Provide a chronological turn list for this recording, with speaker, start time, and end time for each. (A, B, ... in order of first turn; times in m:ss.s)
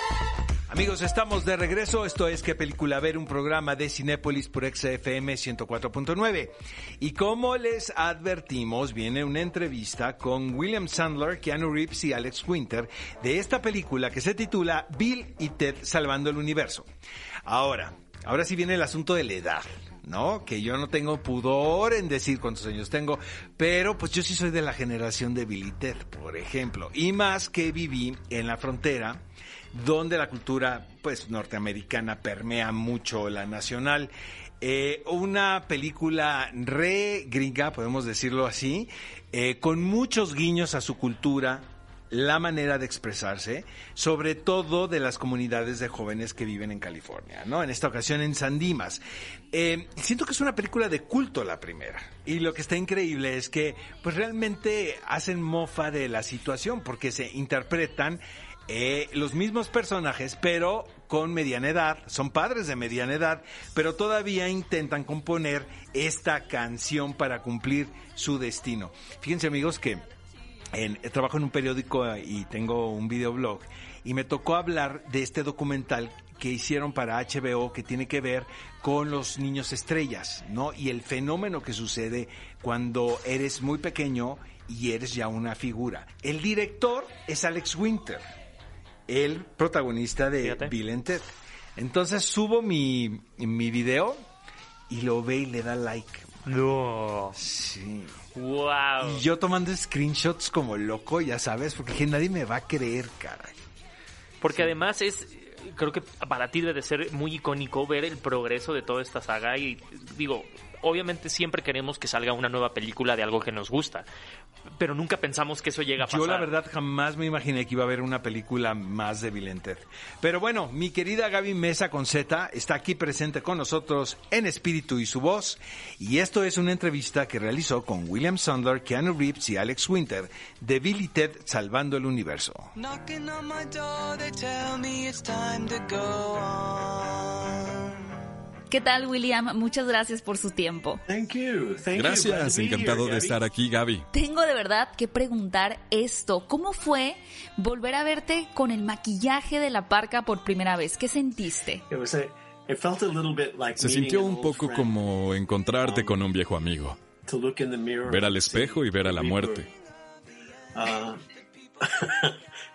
0:00.7-0:16.9 A
0:17.4-0:49.0 A
0:49.5-1:10.1 A
1:10.8-1:28.2 A
1:29.1-1:31.2 A
1:30.4-1:30.7 B
1:31.8-1:34.2 A
1:34.9-1:36.4 A
1:36.5-1:37.4 B
1:37.4-1:38.1 A
1:38.4-1:39.2 B
1:39.0-1:43.5 A
1:44.4-1:54.1 B
1:54.8-1:56.5 B
1:56.0-2:12.7 A
2:12.8-2:17.9 C
2:18.7-2:21.0 D
2:21.1-2:23.4 E
2:21.9-2:24.1 F
2:24.1-2:31.8 D
2:31.9-2:34.9 E
2:33.8-2:37.0 F
2:35.8-2:36.2 E
2:37.3-2:39.7 E
2:38.1-2:39.7 F
2:40.7-2:41.2 E
2:41.8-2:42.4 E